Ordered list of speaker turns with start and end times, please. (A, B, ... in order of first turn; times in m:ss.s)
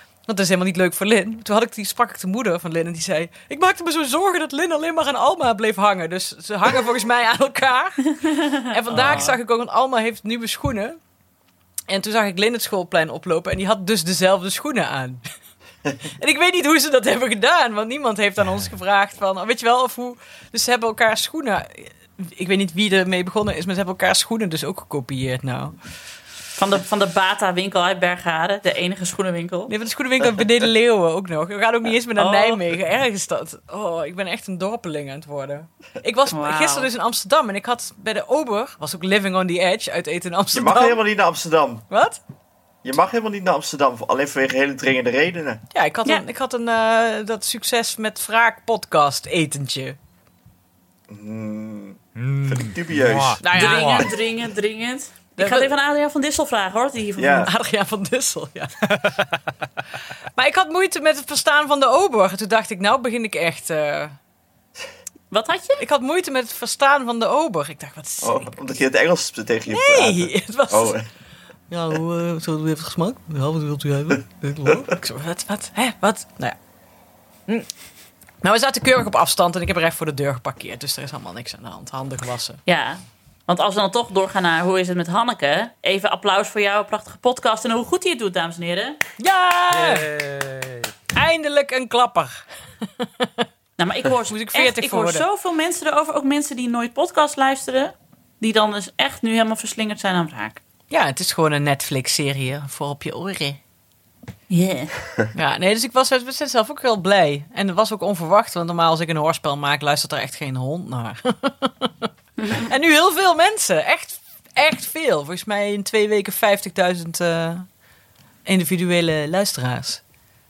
0:00.3-0:11.0 A
0:08.2-0:09.2 B
0:08.9-0:09.3 C
0:11.9-0:15.2 A
0:16.0-0:25.8 A
0:26.6-0:29.7 B
0:29.7-0:41.0 A
0:32.2-0:32.6 B
0:36.3-0:36.9 B
0:40.5-0:41.9 D
0:41.9-0:42.2 A
0:42.8-0:45.6 D
0:45.7-0:50.0 A
0:51.1-0:53.4 D
0:52.2-0:54.1 C
0:53.4-0:54.1 A
0:53.5-0:57.5 B
0:55.4-0:55.7 A
0:57.2-0:57.5 D
0:57.4-0:59.0 A
1:00.4-1:04.2 A
1:05.3-1:05.8 B
1:05.8-1:08.5 A
1:08.2-1:11.1 D
1:09.7-1:11.0 A
1:11.7-1:16.6 A
1:18.4-1:22.6 A
1:22.7-1:29.0 B
1:29.2-1:30.1 A
1:29.7-1:30.9 C
1:31.1-1:32.4 A
1:33.0-1:33.5 A
1:33.8-1:40.6 B
1:34.3-1:35.2 A
1:40.9-1:43.6 A
1:44.5-1:45.0 B
1:45.3-1:57.7 A
1:52.4-1:52.7 B
1:58.5-2:00.0 A